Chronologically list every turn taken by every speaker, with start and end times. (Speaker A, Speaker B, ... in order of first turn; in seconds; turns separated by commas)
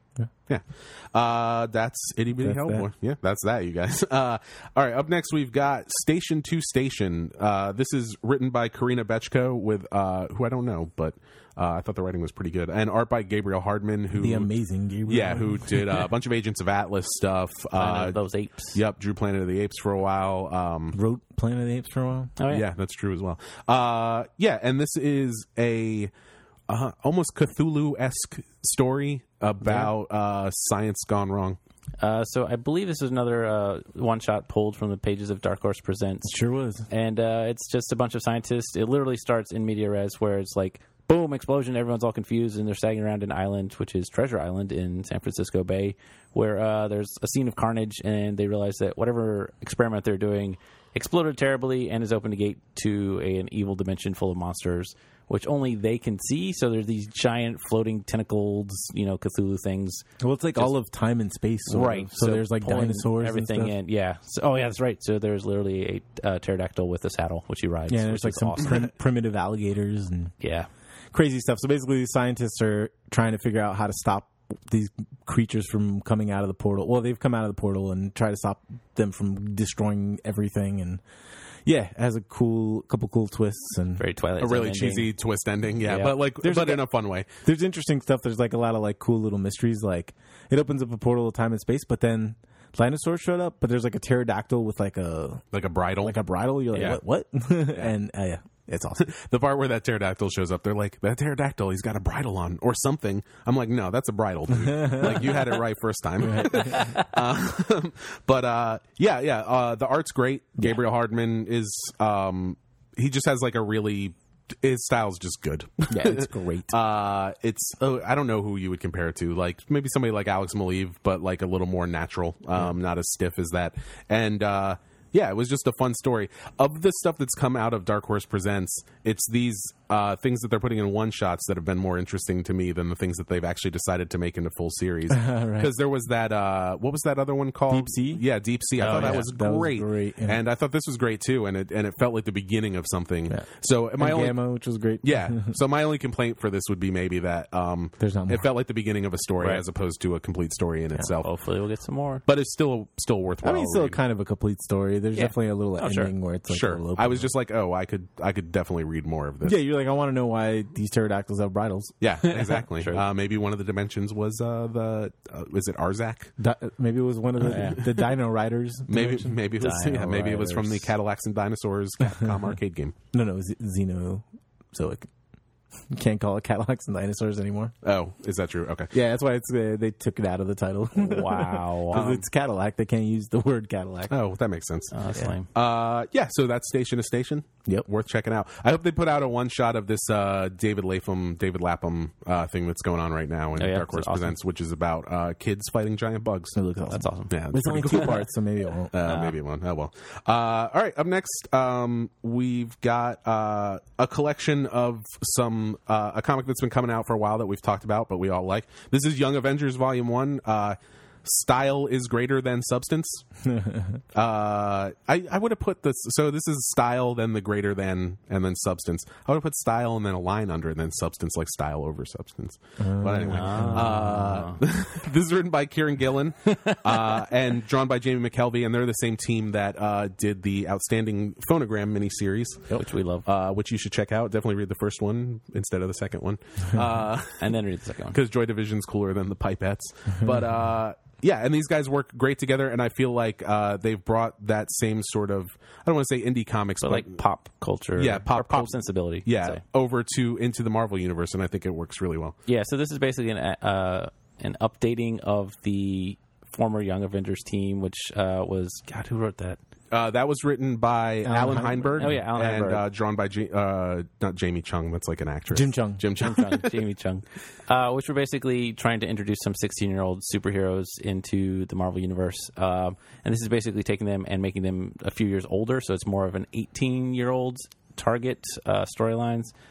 Speaker A: 0.5-14.5, Speaker B: 2.4-2.9, Speaker B: 14.1-16.1, Speaker A: 15.1-18.2, Speaker C: 17.8-18.8, Speaker A: 18.7-20.9, Speaker B: 20.9-22.4, Speaker C: 22.4-22.6, Speaker A: 22.5-26.1, Speaker A: 26.7-31.6, Speaker C: 32.0-36.3, Speaker B: 36.2-36.9, Speaker C: 36.9-60.0, Speaker B: 60.2-63.7, Speaker C: 61.7-68.9, Speaker B: 67.9-70.3, Speaker C: 70.4-70.7, Speaker B: 71.1-81.0, Speaker B: 81.6-84.0, Speaker C: 84.0-85.1, Speaker A: 84.4-87.3, Speaker C: 85.8-86.1, Speaker B: 86.4-86.8, Speaker B: 87.4-95.4, Speaker A: 95.5-96.2, Speaker B: 96.0-99.1, Speaker C: 96.7-97.0, Speaker A: 99.0-144.4, Speaker B: 104.6-105.4, Speaker B: 106.2-106.9, Speaker C: 106.6-107.1, Speaker B: 115.9-116.8, Speaker B: 135.1-135.7, Speaker B: 137.7-138.2, Speaker C: 138.8-139.3, Speaker B: 138.8-140.4, Speaker B: 144.0-145.6, Speaker A: 145.0-151.3, Speaker B: 148.0-148.4, Speaker C: 151.2-152.2, Speaker A: 152.3-154.0, Speaker B: 153.4-157.3, Speaker C: 155.1-156.1, Speaker A: 156.5-159.6, Speaker B: 159.4-162.5, Speaker A: 162.0-166.3, Speaker C: 162.8-163.0, Speaker B: 166.4-170.4, Speaker C: 167.4-167.8, Speaker A: 168.9-172.9, Speaker C: 169.6-170.7, Speaker B: 173.1-175.1, Speaker B: 175.9-177.7, Speaker A: 177.8-178.9, Speaker B: 178.9-184.1, Speaker C: 180.9-182.2, Speaker A: 184.1-184.9, Speaker C: 184.9-185.5, Speaker A: 185.5-196.6, Speaker C: 193.6-194.4, Speaker B: 196.5-198.9, Speaker C: 196.9-197.4, Speaker A: 197.3-198.3, Speaker A: 198.9-213.2, Speaker C: 199.1-199.3, Speaker B: 213.4-214.0, Speaker A: 214.1-237.6, Speaker B: 222.8-224.2, Speaker C: 223.3-224.6, Speaker C: 226.5-227.2, Speaker C: 232.7-233.3, Speaker C: 237.4-238.2, Speaker A: 238.1-247.2, Speaker C: 246.8-249.6, Speaker A: 248.0-252.4, Speaker C: 252.4-259.6, Speaker A: 259.9-266.7, Speaker B: 261.2-262.2, Speaker C: 262.0-262.8, Speaker B: 265.5-266.1, Speaker C: 266.2-279.5